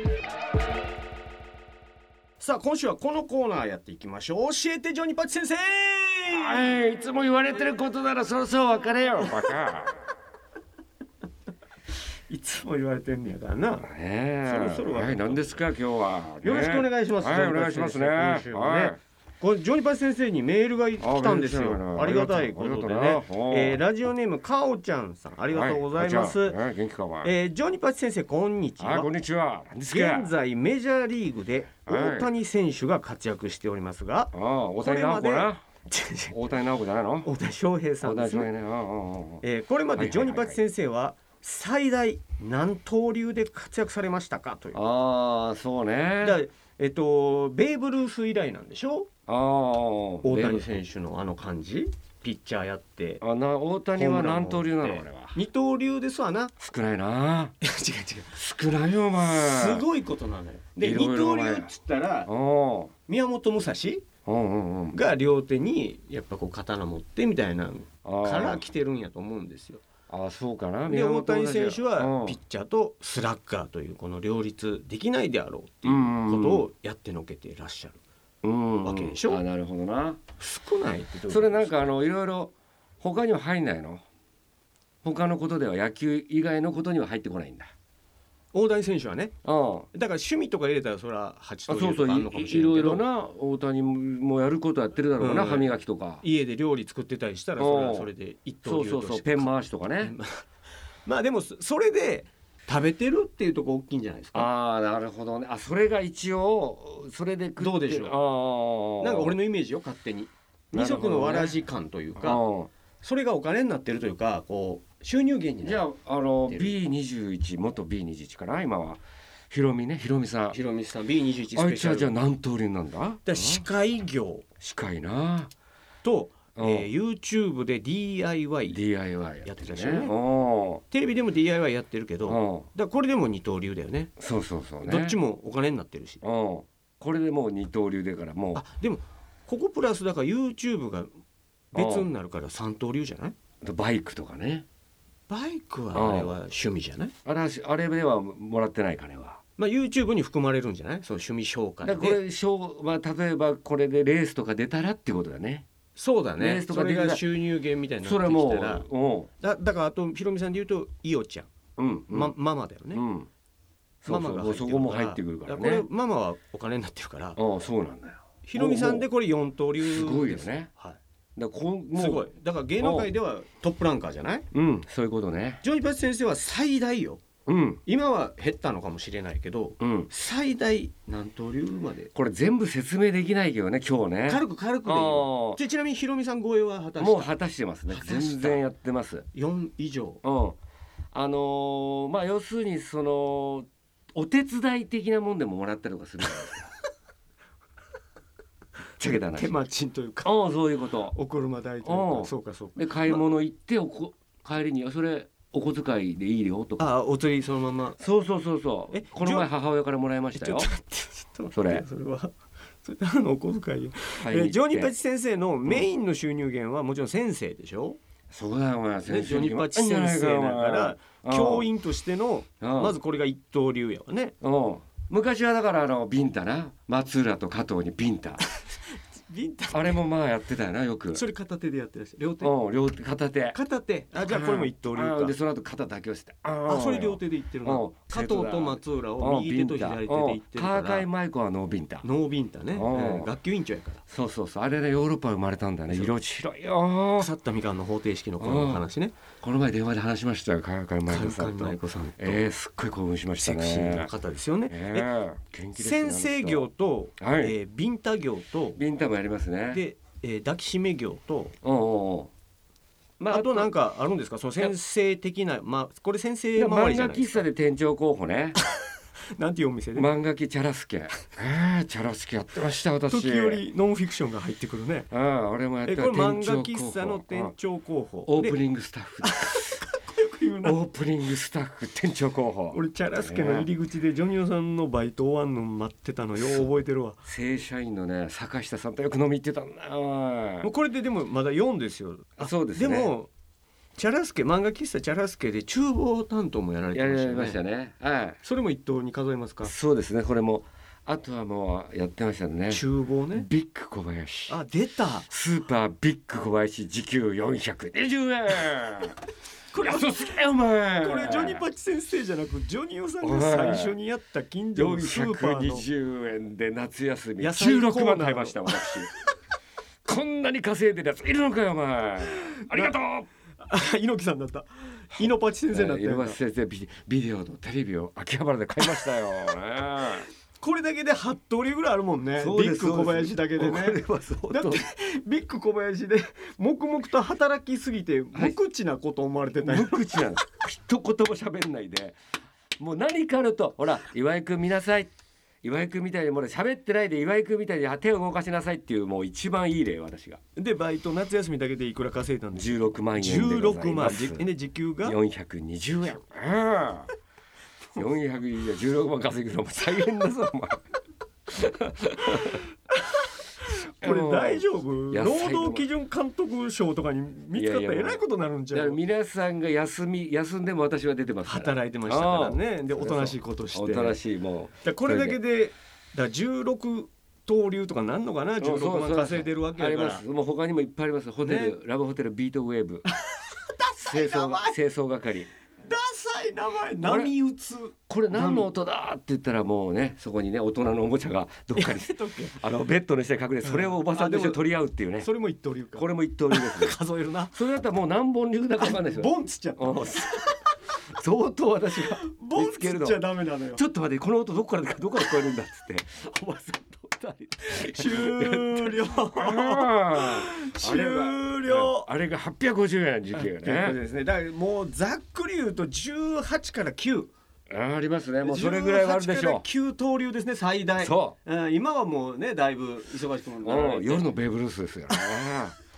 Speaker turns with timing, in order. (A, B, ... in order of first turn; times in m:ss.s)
0:02.4-0:06.7 A
0:06.3-0:10.0 B
0:12.3-0:13.9 A
0:13.8-0:19.0 B
0:14.4-0:15.6 A
0:16.4-0:26.6 A
0:21.0-0:23.8 B
0:25.5-0:27.3 B
0:27.2-0:29.1 A
0:28.8-0:30.3 B
0:29.9-0:36.4 A
0:31.9-0:32.3 B
0:34.3-0:35.6 B
0:36.3-0:37.3 B
0:37.2-0:38.5 A
0:38.0-0:39.4 B
0:39.4-0:44.8 A
0:40.0-0:40.6 B
0:44.7-0:46.4 B
0:46.2-0:49.1 A
0:49.3-0:50.6 B
0:50.2-0:53.2 A
0:53.2-0:55.4 B
0:53.9-0:56.5 A
0:56.6-0:57.5 B
0:57.6-0:58.4 A
0:58.3-0:59.8 B
0:59.2-1:02.3 A
1:00.8-1:01.7 B
1:02.2-1:02.9 B
1:03.1-1:04.0 A
1:04.2-1:05.0 B
1:04.9-1:09.8 A
1:08.0-1:08.6 B
1:10.1-1:12.4 B
1:10.8-1:18.0 A
1:15.8-1:16.6 B
1:18.4-1:20.2 B
1:18.8-1:19.4 A
1:20.4-1:21.7 A
1:21.3-1:24.0 B
1:25.0-1:27.7 B
1:28.5-1:29.3 A
1:29.4-1:29.9 B
1:29.9-1:33.0 A
1:31.7-1:36.2 B
1:35.2-1:35.7 A
1:36.2-1:40.4 A
1:37.6-1:38.1 B
1:38.6-1:40.1 B
1:41.0-1:44.5 A
1:44.3-1:49.4 B
1:47.6-1:48.2 A
1:49.0-1:52.4 A
1:50.7-1:51.6 B
1:52.2-1:52.7 B
1:53.0-1:55.8 A
1:55.6-2:00.6 B
1:56.5-1:56.7 A
2:00.5-2:02.1 A
2:01.5-2:03.6 B
2:03.2-2:04.4 A
2:04.6-2:05.5 B
2:06.0-2:08.8 A
2:06.6-2:06.9 B
2:08.7-2:10.8 B
2:09.4-2:10.2 A
2:10.9-2:14.1 A
2:12.2-2:12.7 B
2:14.2-2:15.2 B
2:14.8-2:16.2 A
2:16.2-2:18.6 B
2:18.5-2:21.1 A
2:21.7-2:23.3 A
2:21.7-2:22.1 B
2:23.6-2:24.6 B
2:25.3-2:27.1 A
2:25.9-2:26.3 B
2:27.2-2:29.4 B
2:29.6-2:32.2 A
2:31.8-2:35.6 B
2:36.0-2:38.8 A
2:36.4-2:37.2 B
2:38.0-2:39.3 B
2:39.4-2:41.5 A
2:41.8-2:42.3 B
2:42.1-2:43.0 A
2:42.9-2:43.3 B
2:44.0-2:45.8 B
2:44.0-2:47.4 A
2:47.4-2:49.1 B
2:48.4-2:51.0 A
2:49.8-2:50.7 B
2:51.4-2:53.1 B
2:51.9-2:54.4 A
2:54.5-2:55.6 B
2:55.6-2:57.2 A
2:57.4-2:57.8 B
2:57.8-3:02.1 A
2:59.8-3:00.1 B
3:02.1-3:05.6 B
3:04.3-3:07.3 A
3:07.0-3:09.2 B
3:07.9-3:08.6 A
3:09.3-3:10.2 A
3:10.2-3:10.6 B
3:11.1-3:16.7 B
3:19.0-3:19.5 B
3:19.0-3:20.3 A
3:20.2-3:21.1 B
3:21.1-3:23.2 A
3:21.8-3:26.9 B
3:26.8-3:28.0 A
3:28.0-3:30.7 B
3:28.9-3:29.5 A
3:30.3-3:32.3 A
3:31.5-3:31.8 B
3:32.8-3:38.0 A
3:34.2-3:34.9 B
3:38.3-3:41.7 B
3:39.0-3:44.3 A
3:42.6-3:43.0 B
3:44.4-3:48.4 B
3:48.4-3:50.0 A
3:49.7-3:51.2 B
3:51.1-3:52.5 A
3:52.4-3:53.6 B
3:53.5-3:55.4 A
3:54.2-4:02.0 B
3:56.7-4:01.1 A
4:02.0-4:04.0 A
4:02.7-4:03.3 B
4:04.1-4:07.3 B
4:07.2-4:09.2 A
4:08.4-4:08.8 B
4:09.4-4:14.1 B
4:11.1-4:12.4 A
4:13.4-4:15.1 A
4:14.7-4:16.7 B
4:15.8-4:18.8 A
4:17.2-4:17.5 B
4:18.8-4:19.8 B
4:19.7-4:21.5 A
4:21.6-4:22.3 B
4:23.2-4:23.7 B
4:23.3-4:27.5 A
4:26.6-4:28.6 B
4:29.4-4:30.1 A
4:29.9-4:33.6 B
4:33.1-4:35.1 A
4:35.1-4:37.5 B
4:35.8-4:38.6 A
4:38.2-4:39.8 B
4:39.2-4:40.8 A
4:40.6-4:43.7 B
4:42.7-4:47.2 A
4:46.4-4:46.7 B
4:47.2-4:50.7 B
4:50.6-4:53.3 A
4:52.4-4:53.1 B
4:54.0-4:57.6 A
4:56.9-4:58.4 B
4:58.4-4:59.7 A
4:59.6-5:04.6 B
5:02.7-5:03.5 A
5:04.5-5:05.3 A
5:05.3-5:09.2 B
5:09.7-5:10.4 A
5:09.8-5:11.6 B
5:11.0-5:15.9 A
5:13.2-5:13.9 B
5:14.8-5:19.1 B
5:17.4-5:19.2 A
5:20.0-5:23.3 B
5:22.4-5:22.9 A
5:23.6-5:26.4 A
5:25.2-5:30.3 B
5:30.6-5:40.2 A
5:32.4-5:34.8 B
5:39.6-5:42.2 B
5:42.8-5:45.1 B
5:45.6-5:50.4 B
5:50.6-5:55.2 A
5:52.5-5:54.5 B
5:55.0-5:57.1 B
5:57.9-6:00.8 B
6:01.5-6:02.6 B
6:03.2-6:09.0 A
6:04.0-6:05.9 B
6:07.5-6:15.4 B
6:11.4-6:14.2 A
6:14.8-6:20.2 A
6:18.6-6:23.0 B
6:21.4-6:21.7 A
6:23.0-6:24.8 A
6:24.0-6:25.5 B
6:25.8-6:28.7 A
6:27.0-6:27.3 B
6:28.1-6:35.3 B
6:31.8-6:32.6 A
6:33.6-6:34.6 A
6:35.2-6:37.5 A
6:36.0-6:37.0 B
6:37.5-6:40.5 B
6:38.8-6:40.6 A
6:41.1-6:43.2 B
6:41.9-6:43.8 A
6:43.7-6:54.0 B
6:47.6-6:52.1 A
6:53.3-6:57.3 A
6:57.7-6:59.6 B
6:58.4-7:04.3 A
7:01.0-7:01.4 B
7:03.6-7:05.7 B